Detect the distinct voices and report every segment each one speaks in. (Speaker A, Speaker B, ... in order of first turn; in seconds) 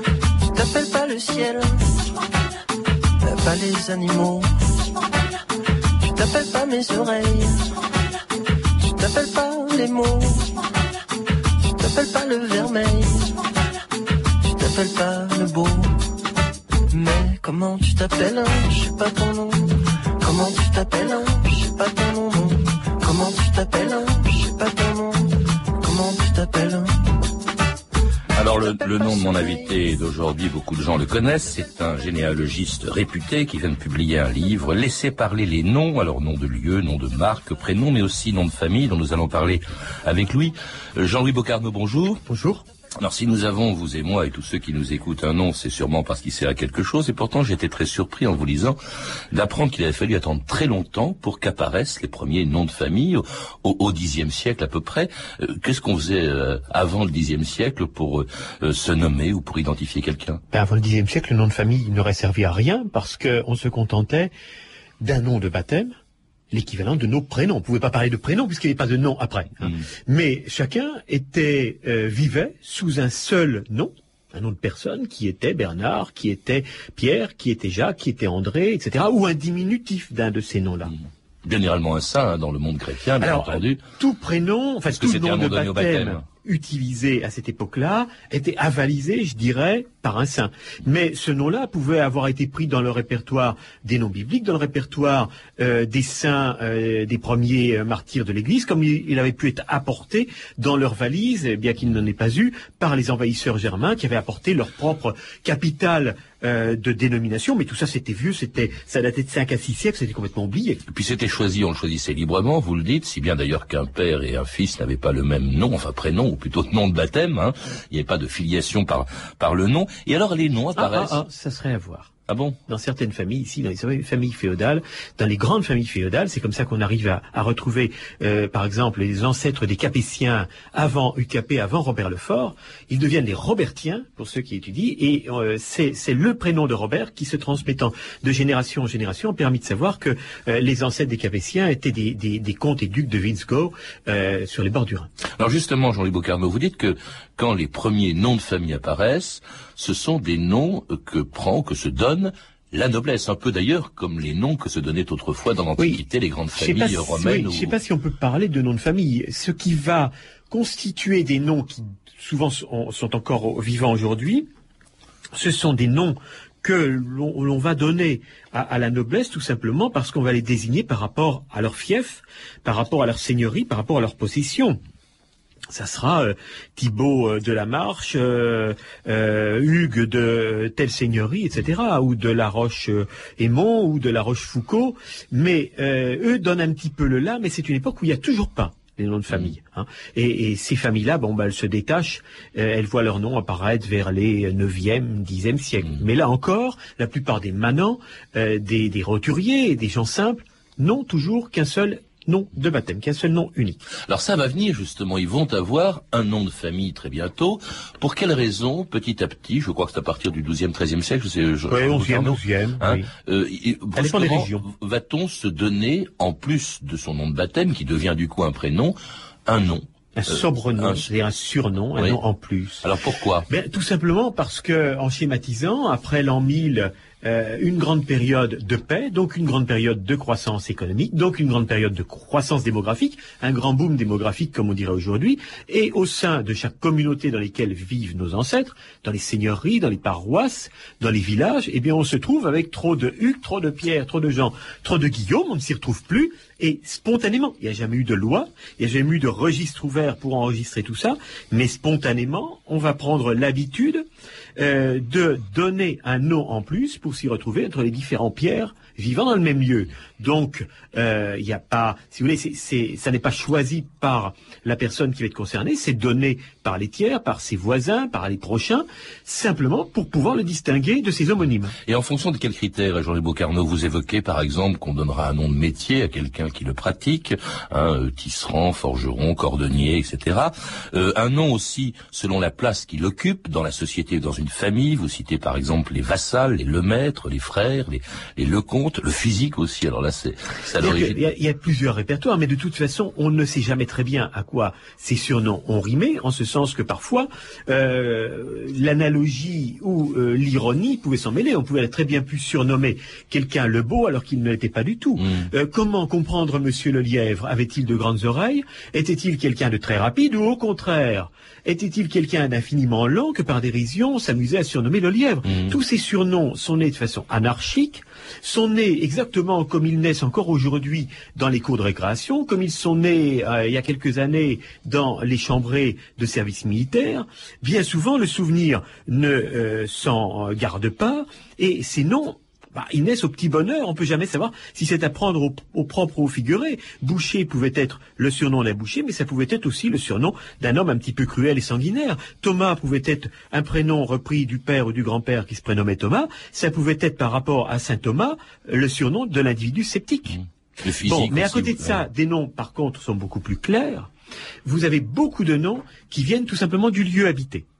Speaker A: 0.4-2.1, 3.2-4.5, 6.0-7.7, 8.8-10.6, 11.6-13.4, 14.4-15.9, 16.9-27.0, 28.5-29.7
Speaker B: 28.4-42.2, 43.0-48.8, 49.3-60.4, 81.4-83.8, 84.9-86.2, 110.9-121.2, 122.3-122.6, 145.4-157.7, 204.1-221.0, 222.8-223.5, 271.9-291.2, 305.2-305.5, 315.5-315.7, 350.4-352.0
Speaker C: 42.3-42.6, 60.5-64.3, 65.0-66.0, 66.5-80.9, 83.2-110.8, 120.8-122.1, 122.7-145.1, 156.5-164.5, 165.3-174.8, 175.7-203.8, 211.7-213.1, 213.9-214.6, 220.2-222.8, 223.5-271.7, 290.8-350.4, 351.0-354.1, 354.6-357.6